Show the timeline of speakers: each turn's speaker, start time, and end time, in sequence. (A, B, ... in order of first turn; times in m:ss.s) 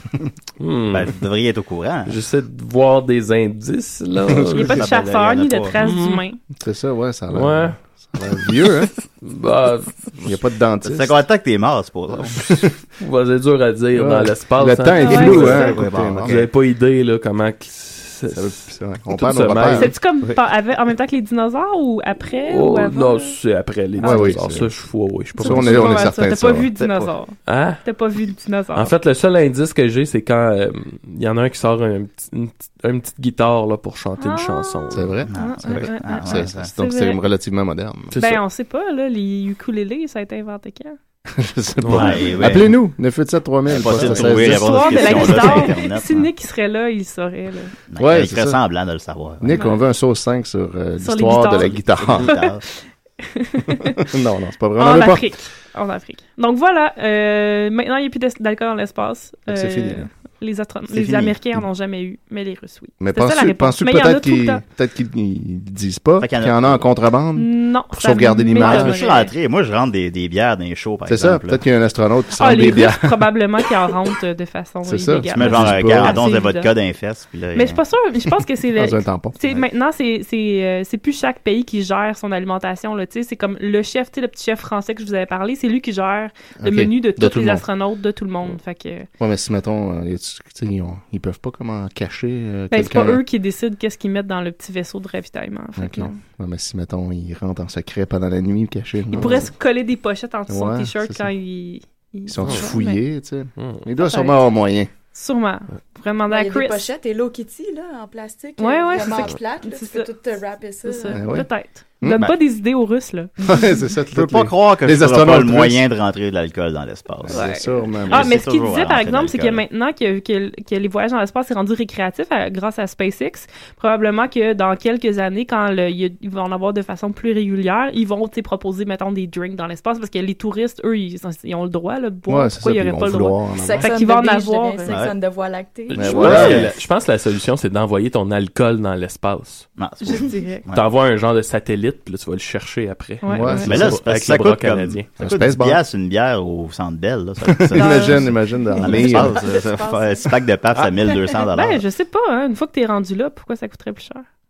0:00.6-0:01.2 A
0:00.9-0:02.2 B
0:02.1-0:04.7 A
0:04.3-0:04.6 C
0:04.5-0:06.4 D
0:04.7-0:05.8 B
0:05.8-0:06.3 A
0:06.6-0:08.9 C
0:07.3-0:07.8 A
0:09.2-0:10.1 A
0:10.2-0:11.2 C
0:10.8-0:12.5 B
0:12.4-0:12.7 C
0:13.0-0:20.0 A
0:14.0-0:16.4 C
0:15.0-0:15.7 D
0:15.1-0:16.5 B
0:18.3-0:19.9 C
0:19.7-0:23.4 D
0:22.3-0:26.1 A
0:24.0-0:24.4 D
0:24.0-0:24.7 C
0:25.4-0:29.0 D
0:25.4-0:26.7 C
0:27.4-0:27.8 A
0:28.8-0:35.2 A
0:34.2-0:37.2 D
0:34.9-0:38.1 C
0:35.3-0:36.7 B
0:38.1-0:38.4 A
0:38.2-0:41.0 D
0:41.3-0:45.7 C
0:41.8-0:42.6 A
0:41.9-0:42.8 B
0:43.7-0:46.3 B
0:43.9-0:47.7 D
0:47.9-0:49.6 B
0:48.0-0:48.6 C
0:49.4-0:52.4 C
0:51.0-0:52.5 D
0:51.6-0:52.6 B
0:53.3-0:54.0 D
0:54.0-0:55.3 C
0:54.8-1:04.6 D
0:59.5-1:00.1 C
1:00.9-1:01.4 B
1:03.0-1:09.1 C
1:06.2-1:06.9 B
1:07.4-1:09.3 D
1:08.6-1:11.6 B
1:11.1-1:13.3 C
1:12.4-1:16.7 D
1:14.8-1:16.2 C
1:15.3-1:17.8 B
1:17.6-1:29.1 D
1:18.8-1:19.4 C
1:26.6-1:27.6 C
1:29.2-1:33.2 C
1:32.7-1:36.2 D
1:35.8-1:39.5 C
1:39.1-1:43.0 D
1:40.5-1:41.3 C
1:42.3-1:44.9 C
1:43.6-1:43.8 A
1:44.0-1:44.5 D
1:45.1-1:46.9 D
1:46.3-1:51.2 E
1:48.6-1:50.1 D
1:50.8-1:53.3 D
1:51.1-1:51.5 C
1:52.0-1:52.3 C
1:53.4-1:55.8 C
1:54.1-1:59.6 B
1:57.2-1:58.4 C
1:57.3-2:15.0 D
2:12.3-2:13.9 C
2:13.6-2:16.8 E
2:14.9-2:15.1 B
2:15.9-2:16.7 C
2:16.0-2:19.7 A
2:16.2-2:16.7 B
2:19.8-2:20.8 B
2:20.0-2:20.6 D
2:20.7-2:25.1 A
2:23.2-2:23.7 D
2:23.3-2:24.0 C
2:23.6-2:31.8 B
2:25.2-2:25.8 C
2:27.4-2:29.4 C
2:27.7-2:28.3 D
2:28.9-2:30.4 E
2:31.5-2:34.2 D